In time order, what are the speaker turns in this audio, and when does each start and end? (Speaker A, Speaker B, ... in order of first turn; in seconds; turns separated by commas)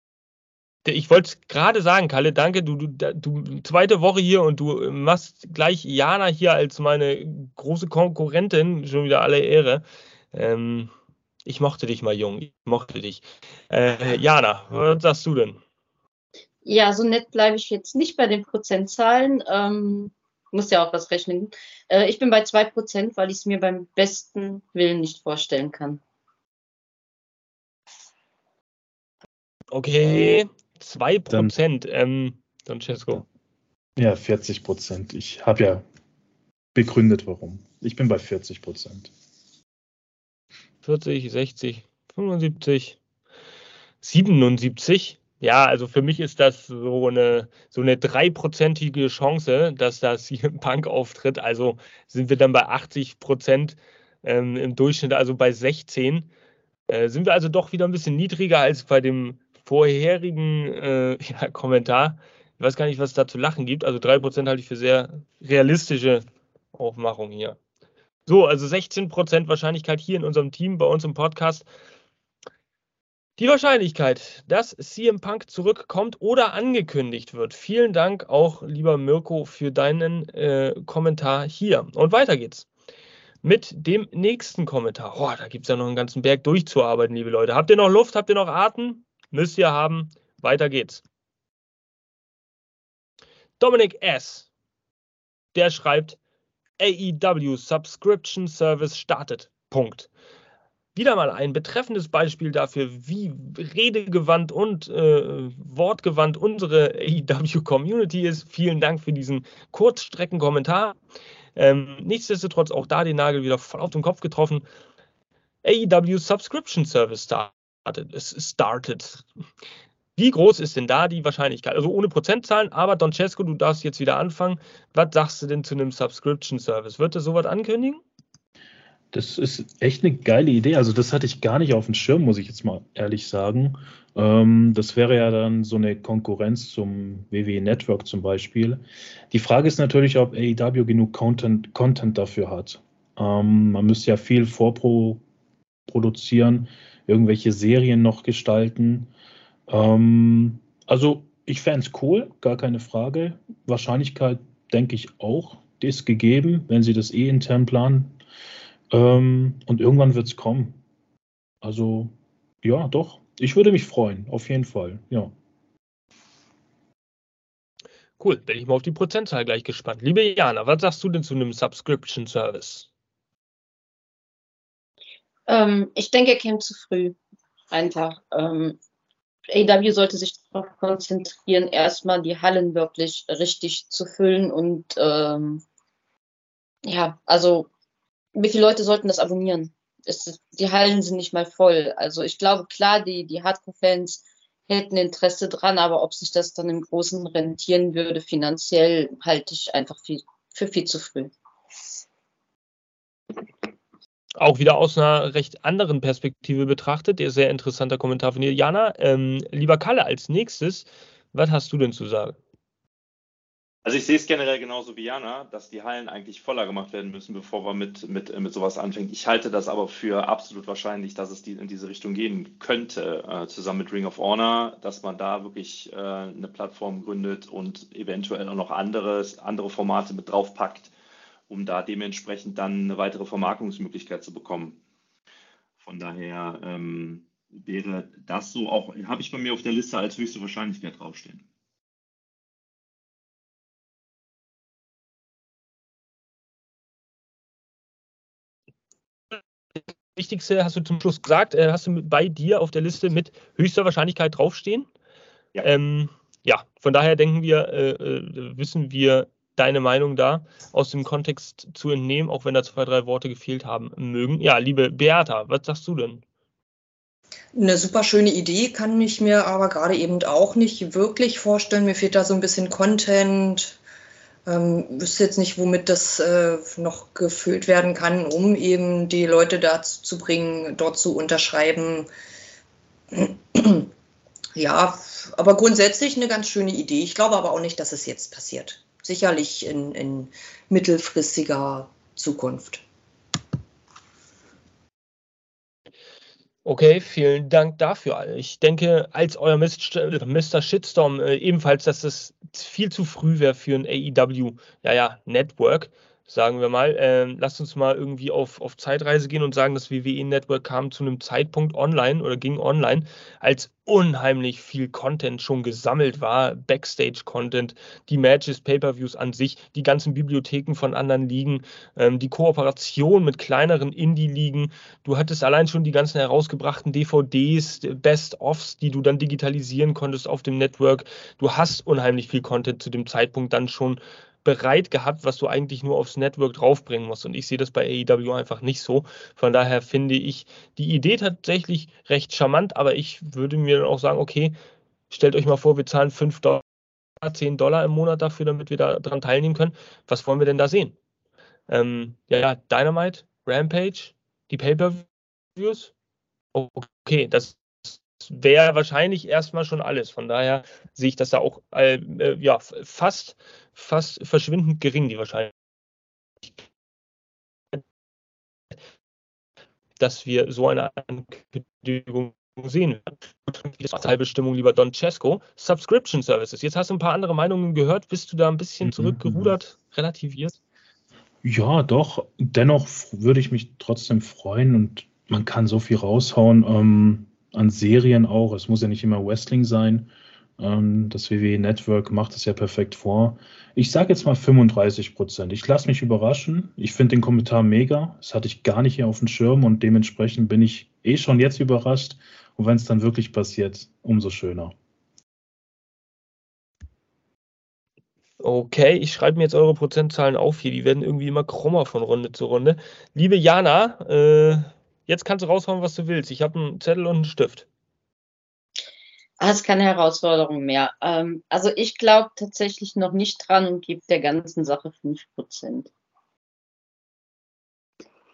Speaker A: 0.8-10.9, Speaker A: 11.4-15.6, Speaker B: 16.6-26.0, Speaker A: 29.7-33.2, Speaker C: 34.0-35.8, Speaker C: 36.7-39.1, Speaker A: 40.8-43.0, Speaker A: 44.0-56.3, Speaker A: 56.9-67.6, Speaker A: 68.2-71.7, Speaker A: 73.4-82.7, Speaker A: 83.4-91.0, Speaker A: 93.6-94.5, Speaker A: 95.5-96.2, Speaker A: 96.8-100.1, Speaker A: 100.9-111.0, Speaker A: 111.5-114.6, Speaker A: 115.6-119.2, Speaker A: 120.2-128.0, Speaker C: 129.1-145.2, Speaker C: 145.9-149.1, Speaker C: 149.7-158.1, Speaker C: 158.9-160.8, Speaker C: 161.6-165.3, Speaker A: 168.2-172.9, Speaker B: 175.5-177.2, Speaker B: 177.7-178.8, Speaker B: 179.5-185.6, Speaker B: 186.8-187.7, Speaker B: 188.3-201.3, Speaker A: 204.4-212.4, Speaker D: 213.8-230.9, Speaker D: 231.5-234.8, Speaker D: 235.8-241.4, Speaker A: 250.1-254.9, Speaker A: 255.6-266.2, Speaker E: 267.5-273.8, Speaker E: 274.4-282.1, Speaker E: 283.1-283.9, Speaker E: 284.6-292.8, Speaker A: 296.6-344.5, Speaker A: 345.1-346.6, Speaker A: 347.2-350.9, Speaker A: 351.7-355.0, Speaker A: 355.6-355.9, Speaker A: 356.5-365.5, Speaker A: 370.0-380.6, Speaker C: 378.8-379.5, Speaker C: 381.4-404.7, Speaker A: 408.4-417.7, Speaker B: 419.4-425.9